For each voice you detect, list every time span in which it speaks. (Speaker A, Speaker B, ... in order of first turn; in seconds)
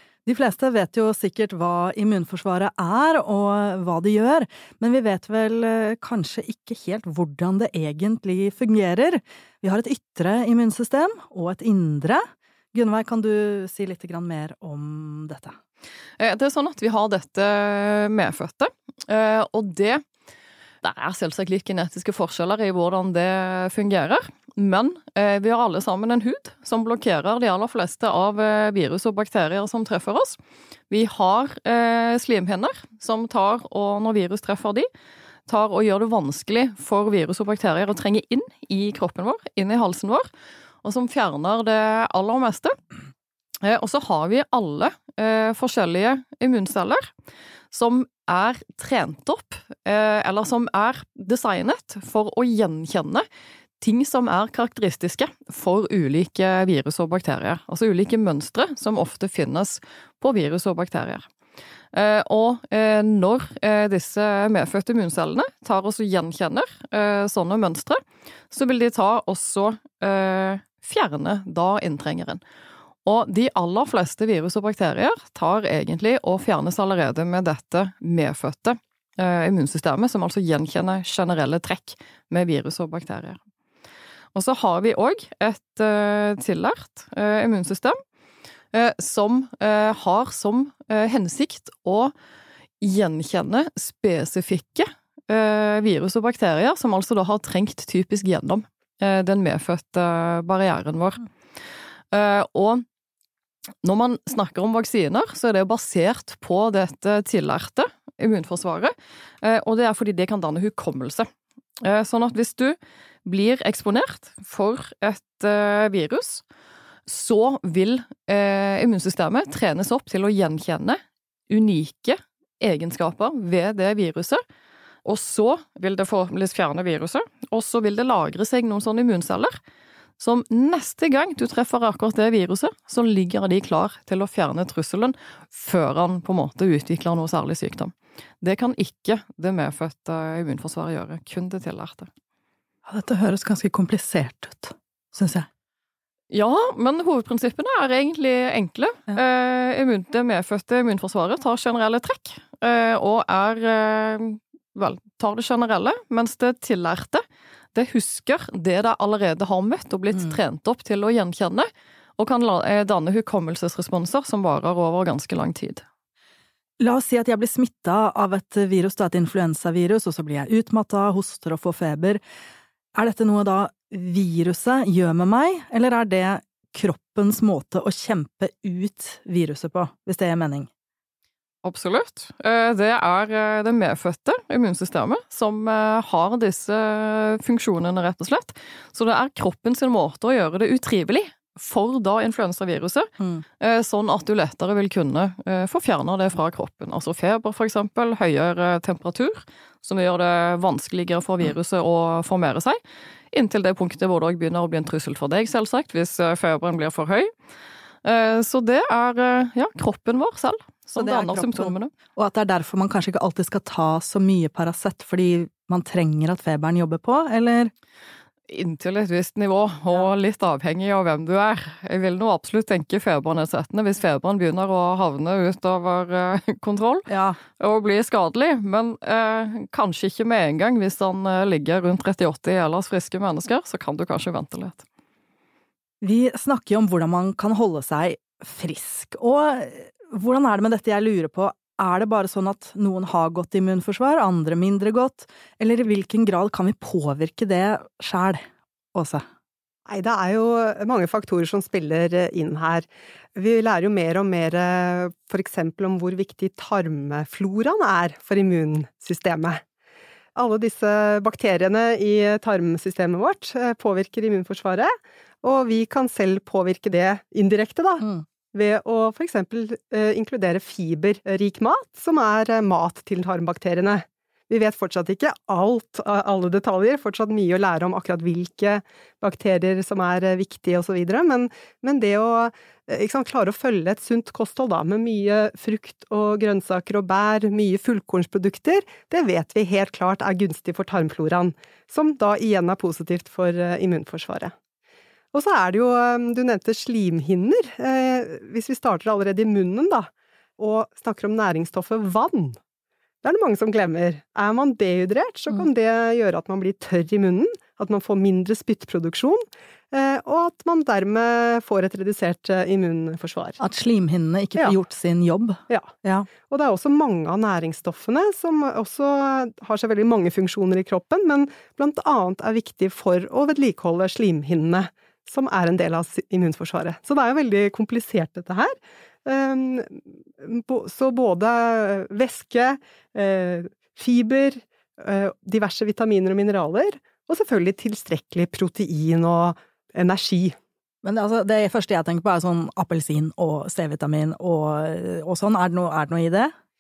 Speaker A: 0.3-15.6, 142.9-145.5, 166.8-172.2, 172.9-180.7, 211.0-217.7, 227.1-227.4, 236.0-249.3, 313.6-316.3, 341.0-346.5
Speaker B: 16.2-20.1, 20.8-30.4, 30.9-34.9, 35.5-40.3, 40.8-42.8, 43.6-47.1, 47.7-53.3, 53.8-61.3, 61.9-72.4, 73.0-83.4, 84.3-88.0, 88.7-92.1, 92.8-101.3, 102.1-102.8, 103.8-111.3, 111.8-116.4, 117.1-124.4, 125.0-129.6, 130.2-142.1, 146.3-165.8, 181.6-202.8, 203.3-207.3, 208.0-211.9, 218.5-234.8
Speaker C: 249.9-259.6, 260.4-294.5, 295.3-302.6, 303.2-313.6, 316.5-340.6